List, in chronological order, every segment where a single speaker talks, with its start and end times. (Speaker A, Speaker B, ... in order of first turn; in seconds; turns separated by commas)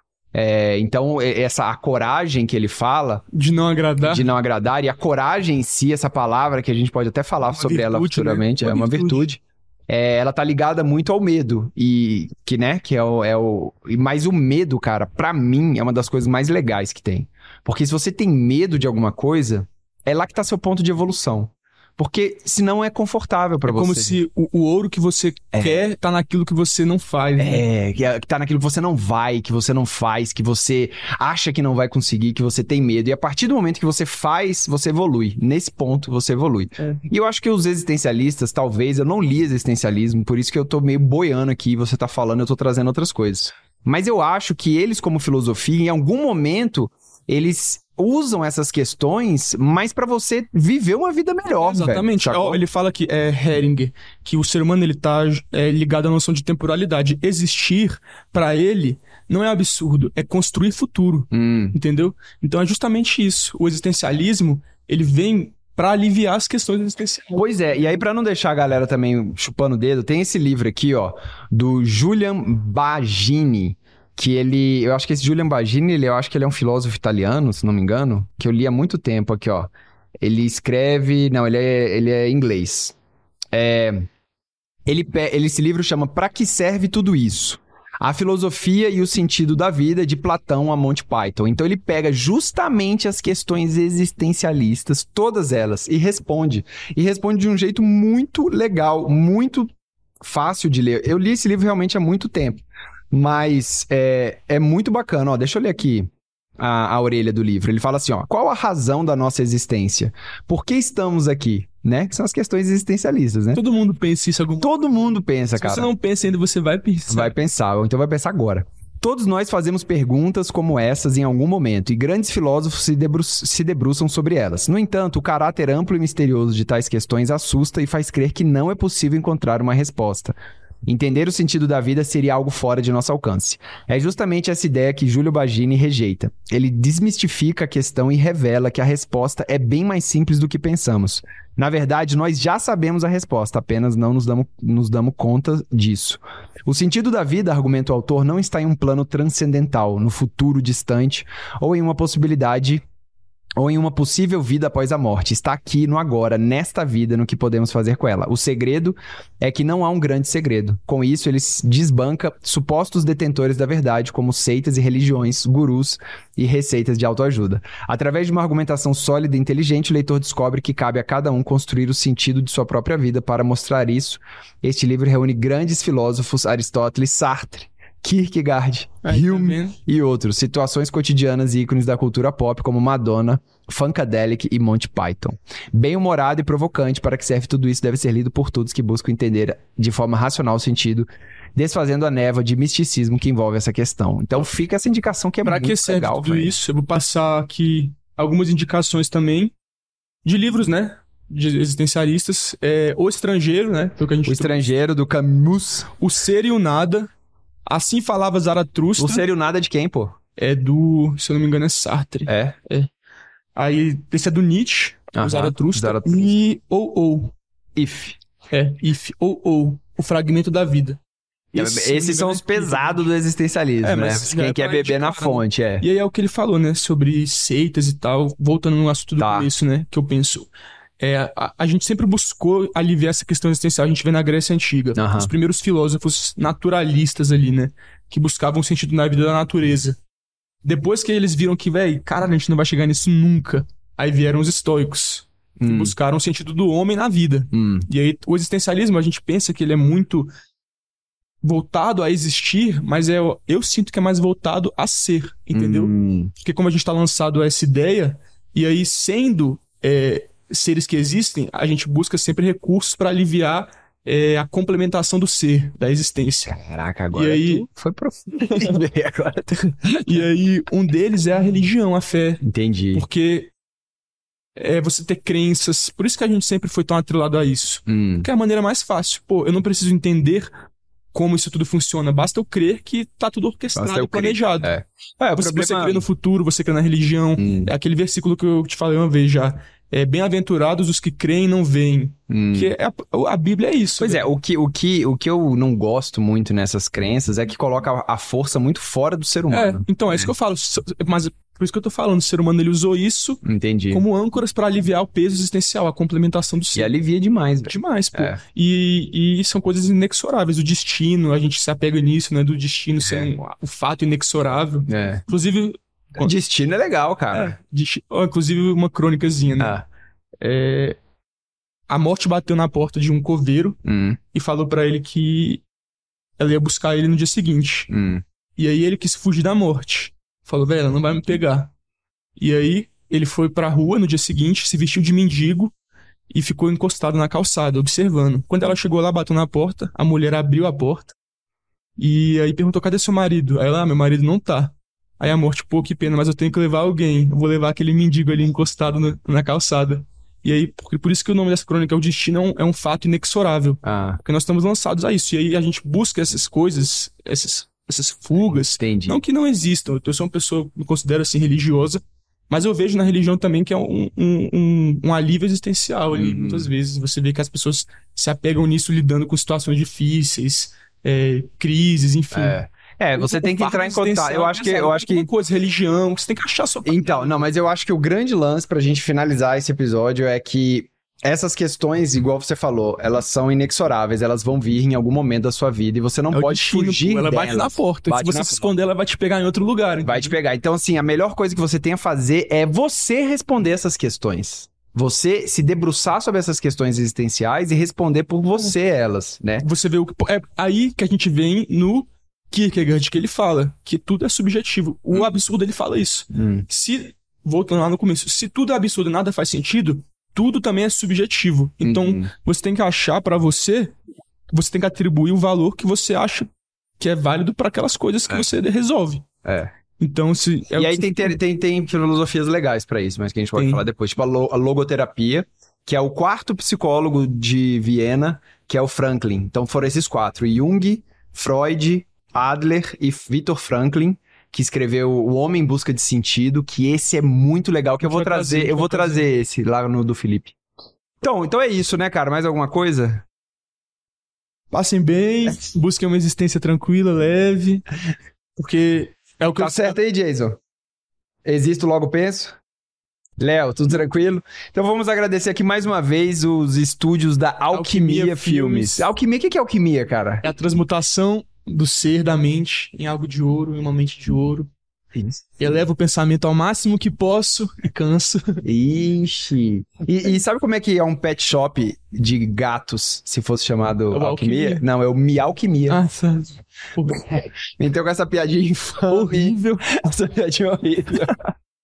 Speaker A: 0.3-3.2, Speaker B: 3.3-4.3, Speaker A: 4.0-24.2, Speaker B: 7.5-9.2, Speaker B: 23.6-27.6, Speaker A: 25.5-25.8, Speaker A: 27.4-52.6, Speaker B: 51.6-67.4, Speaker A: 61.3-61.8, Speaker A: 67.3-83.0, Speaker A: 83.5-84.0, Speaker A: 84.8-99.7, Speaker A: 100.2-113.6, Speaker B: 113.5-114.7, Speaker A: 114.6-115.9, Speaker B: 115.6-117.3, Speaker A: 117.1-130.3, Speaker A: 130.8-152.8, Speaker A: 153.6-196.6, Speaker B: 179.0-179.8, Speaker B: 195.4-199.5, Speaker B: 200.2-204.7, Speaker A: 204.2-205.9, Speaker B: 206.0-207.1, Speaker B: 207.7-209.2, Speaker A: 209.0-210.2, Speaker B: 210.4-212.9, Speaker A: 212.3-212.6, Speaker B: 213.6-217.3, Speaker A: 215.1-216.3, Speaker A: 217.7-218.2, Speaker B: 218.5-221.0, Speaker B: 221.5-223.1, Speaker A: 221.5-225.8, Speaker B: 223.8-240.0, Speaker A: 229.2-229.5, Speaker A: 234.9-235.3, Speaker B: 240.6-250.3, Speaker A: 245.6-245.9, Speaker A: 247.5-247.9, Speaker B: 251.4-266.6, Speaker A: 255.5-256.3, Speaker A: 266.5-270.2, Speaker B: 267.1-267.6, Speaker B: 268.5-268.7, Speaker B: 270.0-272.4, Speaker A: 272.4-273.0, Speaker B: 272.9-273.5, Speaker B: 274.6-280.5, Speaker A: 277.9-278.3, Speaker B: 281.1-284.7, Speaker A: 283.8-286.0, Speaker B: 285.4-294.2, Speaker A: 287.4-287.7, Speaker A: 292.3-292.7, Speaker A: 294.0-300.3, Speaker B: 299.5-306.9, Speaker A: 303.4-304.0, Speaker A: 306.7-308.4, Speaker B: 307.7-316.3, Speaker A: 313.0-313.3, Speaker A: 314.9-315.2, Speaker A: 316.2-317.5, Speaker B: 317.3-319.8, Speaker A: 319.6-319.8, Speaker B: 320.4-321.0, Speaker B: 321.9-323.8, Speaker A: 323.8-324.2, Speaker B: 324.3-325.6, Speaker B: 326.4-327.9, Speaker A: 327.9-328.2, Speaker B: 328.6-331.7, Speaker B: 332.4-335.7, Speaker B: 336.3-341.1, Speaker B: 342.0-372.6, Speaker A: 353.8-354.2, Speaker A: 358.8-359.2, Speaker A: 366.1-366.7, Speaker A: 372.3-375.3, Speaker B: 373.1-377.4, Speaker A: 376.8-388.7, Speaker B: 386.3-390.4, Speaker A: 390.0-399.6, Speaker B: 399.6-413.9, Speaker A: 405.1-405.4, Speaker A: 406.3-406.6, Speaker A: 411.8-412.3, Speaker B: 414.5-419.2, Speaker A: 419.4-419.7, Speaker B: 420.0-421.4, Speaker A: 420.8-440.5, Speaker B: 423.5-423.8, Speaker B: 438.0-439.3, Speaker A: 441.2-443.2, Speaker B: 444.7-447.8, Speaker B: 448.6-450.0, Speaker A: 449.6-450.6, Speaker A: 451.4-452.6, Speaker A: 453.4-460.4, Speaker B: 457.7-459.1, Speaker B: 460.4-464.7, Speaker A: 465.1-465.4, Speaker B: 465.6-468.6, Speaker A: 468.6-476.0, Speaker B: 474.1-474.8, Speaker B: 475.9-477.2, Speaker A: 477.1-481.4, Speaker B: 479.1-479.8